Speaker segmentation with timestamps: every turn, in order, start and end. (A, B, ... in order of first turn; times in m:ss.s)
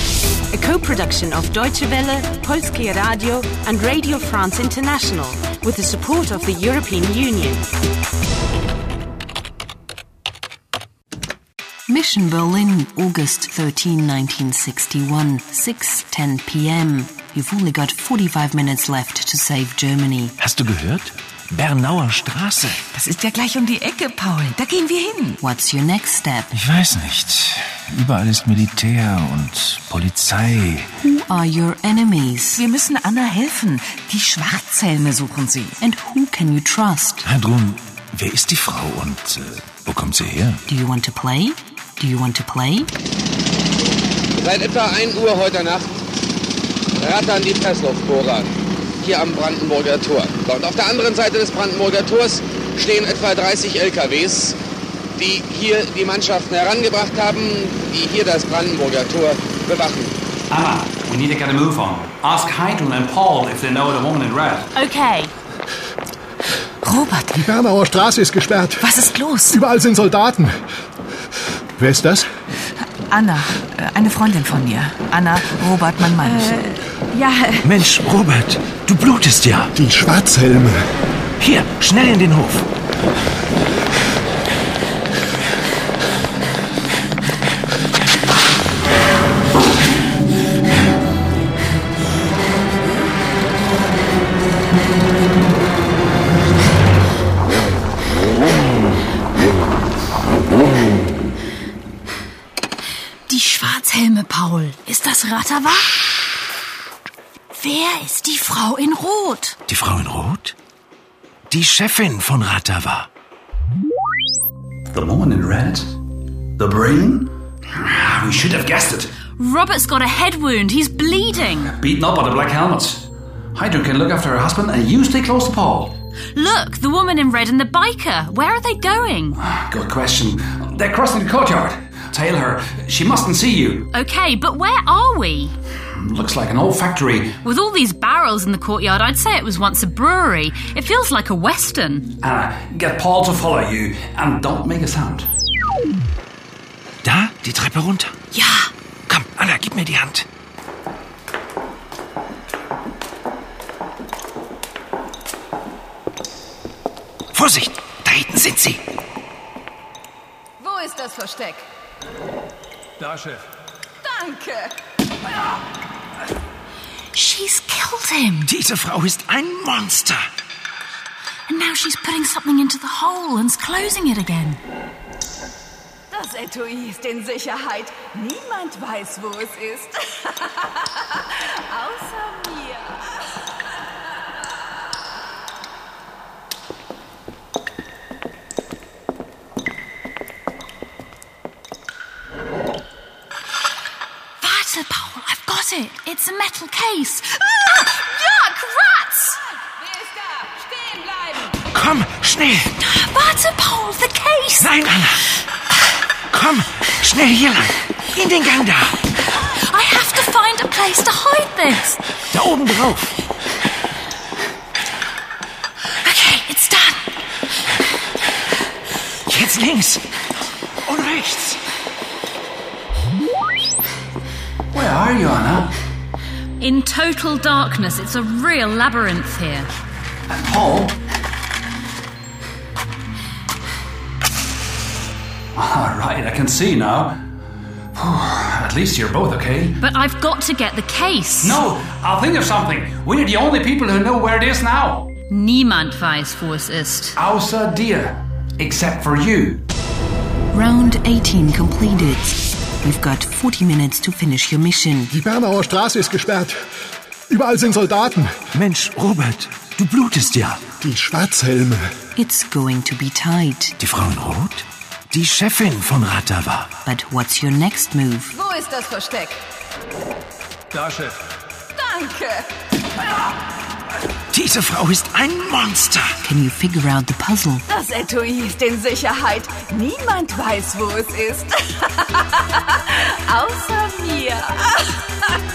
0:00.5-0:07.7 A
0:11.9-0:20.3 B
0:20.4-0:22.8 C
0:22.9-0:25.4 D
0:25.4-0:26.6 B
0:26.6-0:30.9 C
0:30.9-0:32.6 B
0:32.6-0:35.8 D
0:35.8-0:37.2 B
0:37.3-0:40.6 C
0:40.7-0:42.9 B
0:44.4-0:46.0 E
0:47.0-0:54.6 E
0:55.2-1:00.2 E
1:00.5-1:04.7 F
1:04.7-1:05.3 G
1:06.8-1:07.5 D
1:07.3-1:09.0 H
1:08.8-1:09.6 D
1:09.5-1:10.5 H
1:11.8-1:12.3 H
1:13.1-1:16.8 D
1:17.6-1:19.7 C
1:19.7-1:20.8 H
1:21.4-1:22.6 C
1:43.3-1:45.9 G
1:47.6-1:49.6 G
1:49.7-1:50.5 C
1:51.5-1:53.1 C
1:54.9-1:55.9 F
1:56.6-1:59.1 F
1:59.4-2:01.7 G
2:01.8-2:03.0 F
2:03.5-2:05.9 F
2:06.3-2:09.4 G
2:09.4-2:13.9 F
2:13.9-2:15.5 G
2:15.9-2:17.4 F
2:17.4-2:22.1 G
2:22.2-2:25.3 F
2:27.0-2:28.1 C
2:28.4-2:28.6 G
2:29.1-2:30.2 C
2:37.3-2:38.8 C
2:40.6-2:41.6 I
2:43.0-2:43.4 F
2:44.0-2:44.7 I
2:47.1-2:48.5 G
2:48.5-2:50.2 C
2:51.5-2:54.6 G
2:56.1-3:03.1 I
3:14.4-3:19.4 G
3:19.8-3:21.3 I
3:21.7-3:22.7 C
3:22.8-3:24.7 G
3:24.6-3:25.2 C
3:26.3-3:29.0 C
3:29.4-3:32.0 G
3:32.3-3:33.1 C
3:36.0-3:37.0 G
3:39.3-3:40.0 C
3:40.9-3:41.6 C
3:44.7-3:45.7 F
3:46.6-3:49.7 G
3:50.3-3:51.0 F
3:55.6-3:57.2 F
3:57.9-3:59.8 F
3:59.8-4:01.6 G
4:01.4-4:05.1 F
4:05.3-4:07.2 G
4:07.2-4:09.6 F
4:10.5-4:15.1 B
4:15.1-4:16.6 H
4:17.3-4:18.3 H
4:18.6-4:20.7 C
4:20.8-4:21.9 H
4:22.2-4:23.8 B
4:23.8-4:26.7 C
4:26.8-4:28.4 B
4:28.3-4:29.4 I
4:30.7-4:31.2 F
4:31.8-4:32.5 I
4:34.3-4:36.1 C
4:36.2-4:37.6 B
4:37.7-4:45.0 I